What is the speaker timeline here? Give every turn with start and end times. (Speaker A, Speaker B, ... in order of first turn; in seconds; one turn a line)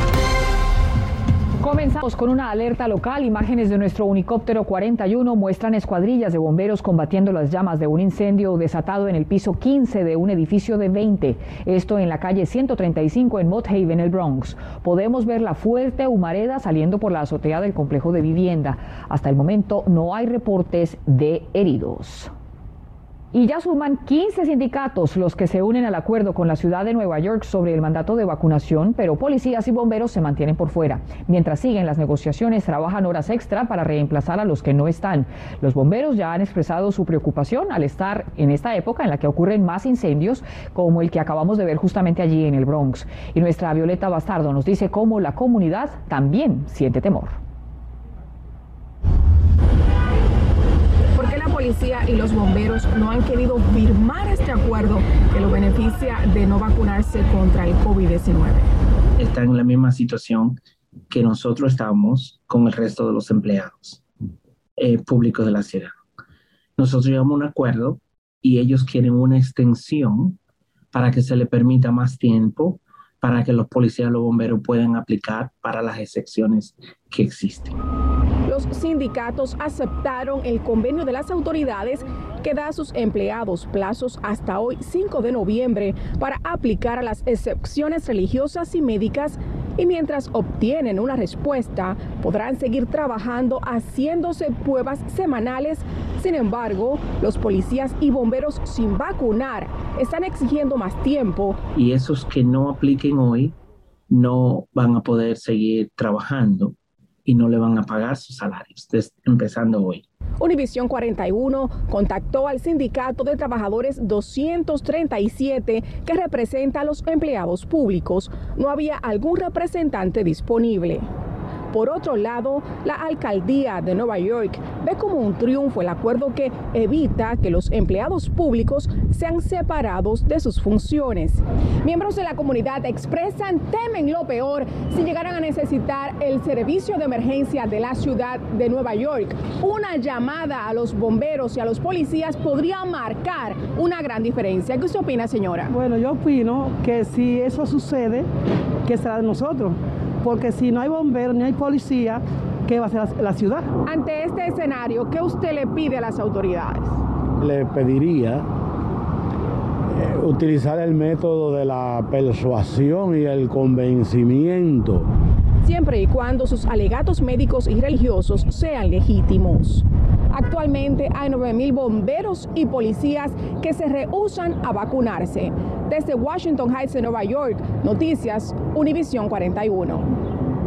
Speaker A: 1.6-22.3
Speaker A: 23.3-47.4
Speaker B: 51.1-58.7
Speaker C: 59.2-60.6
Speaker C: 61.1-64.0
Speaker C: 64.8-65.9
Speaker C: 66.8-70.4
Speaker C: 70.9-77.8
Speaker B: 78.5-101.6
Speaker C: 101.7-103.5
Speaker C: 104.1-110.0
Speaker B: 110.4-121.0
Speaker B: 121.7-145.7
Speaker D: 145.7-148.2
Speaker D: 148.9-153.7
Speaker B: 153.8-156.9
Speaker E: 157.4-158.4
Speaker E: 160.0-165.1
Speaker B: 165.6-180.0